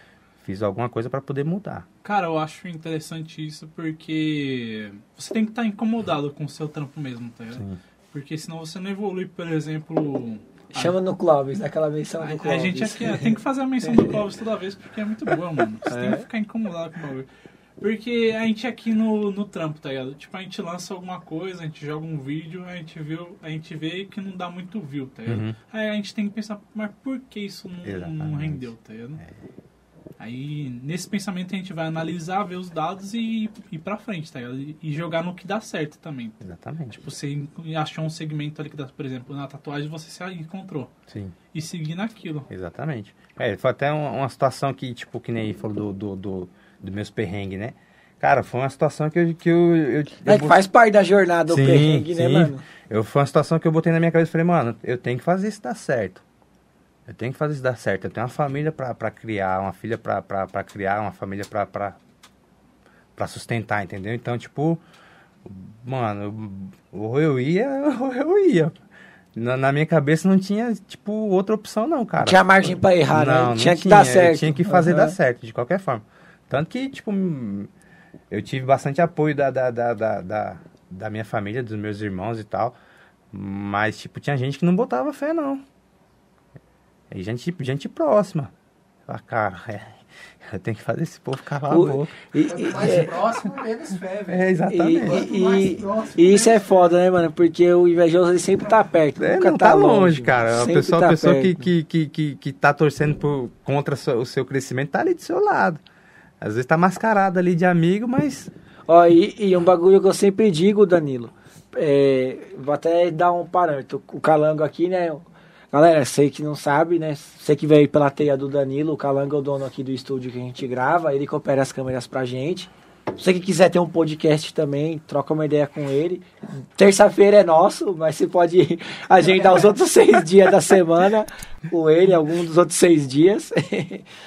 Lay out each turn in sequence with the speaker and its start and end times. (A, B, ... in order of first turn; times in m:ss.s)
0:00.4-0:01.9 A
0:02.0-0:10.9 B
0:10.7-0:13.3 C
0:12.2-0:17.3 B
0:15.9-0:16.2 C
0:17.8-0:29.2 B
0:25.3-0:25.6 A
0:27.8-0:29.3 A
0:30.2-0:36.4 B
0:36.4-0:37.0 A
0:36.9-0:40.9 B
0:41.1-0:41.4 A
0:41.5-0:42.5 B
0:42.5-0:50.6 A
0:50.3-0:52.6 C
0:51.5-0:56.2 A
0:57.1-1:02.0 A
1:03.2-1:04.8 A
1:05.4-1:08.8 A
1:09.4-1:17.7 A
1:12.2-1:15.2 C
1:18.3-1:22.8 A
1:23.3-1:25.6 A
1:27.1-1:28.5 A
1:29.1-1:32.2 A
1:31.7-1:33.2 C
1:32.4-1:36.6 D
1:34.3-1:35.2 A
1:34.7-1:41.7 C
1:39.2-1:45.8 A
1:46.4-1:48.5 A
1:48.9-2:14.0 C